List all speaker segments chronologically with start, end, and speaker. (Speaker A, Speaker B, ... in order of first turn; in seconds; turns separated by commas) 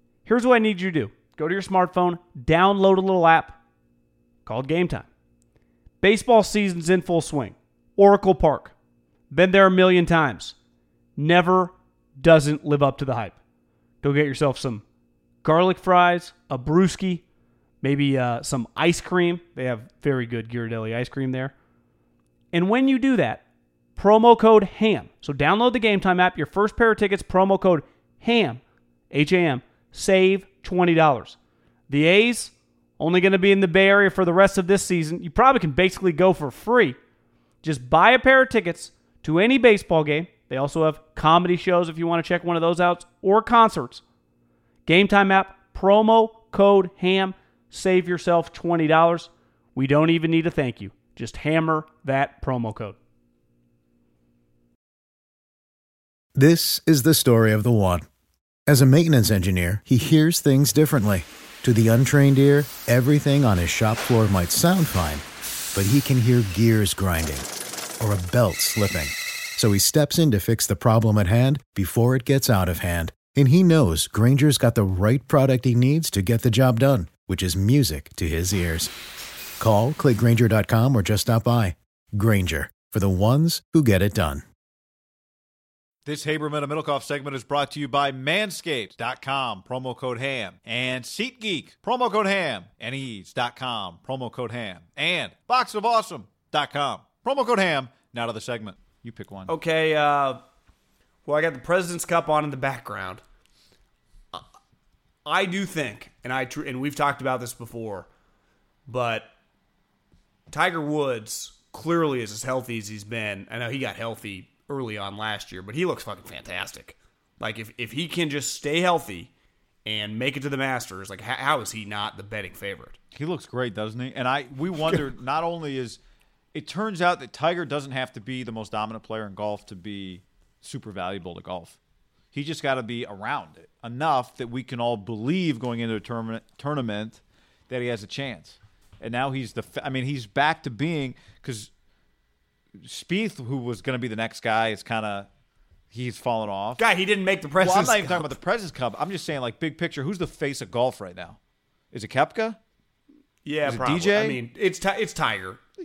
Speaker A: 0.2-3.5, Speaker A: 4.5-5.1, Speaker A: 6.0-8.7, Speaker A: 9.3-10.6, Speaker A: 11.2-13.4, Speaker A: 14.0-14.8, Speaker A: 15.4-17.2, Speaker A: 17.8-21.5, Speaker A: 22.5-23.4, Speaker A: 23.9-31.4, Speaker A: 31.9-37.0, Speaker A: 37.6-44.0, Speaker A: 44.9-53.0, Speaker B: 56.3-58.0, Speaker B: 58.7-65.2, Speaker B: 65.7-67.5, Speaker B: 68.0-78.9, Speaker B: 79.6-84.4, Speaker C: 86.0-99.5, Speaker A: 99.5-100.4, Speaker A: 101.2-103.2, Speaker A: 105.2-108.1, Speaker A: 108.9-109.3, Speaker A: 110.5-119.3, Speaker A: 119.8-123.0, Speaker C: 123.1-126.0, Speaker C: 126.5-131.8, Speaker C: 132.3-141.7, Speaker C: 142.8-145.3, Speaker C: 145.9-146.8, Speaker A: 146.8-148.3, Speaker C: 147.6-151.4, Speaker C: 151.9-152.6, Speaker A: 153.4-155.6, Speaker C: 153.6-154.4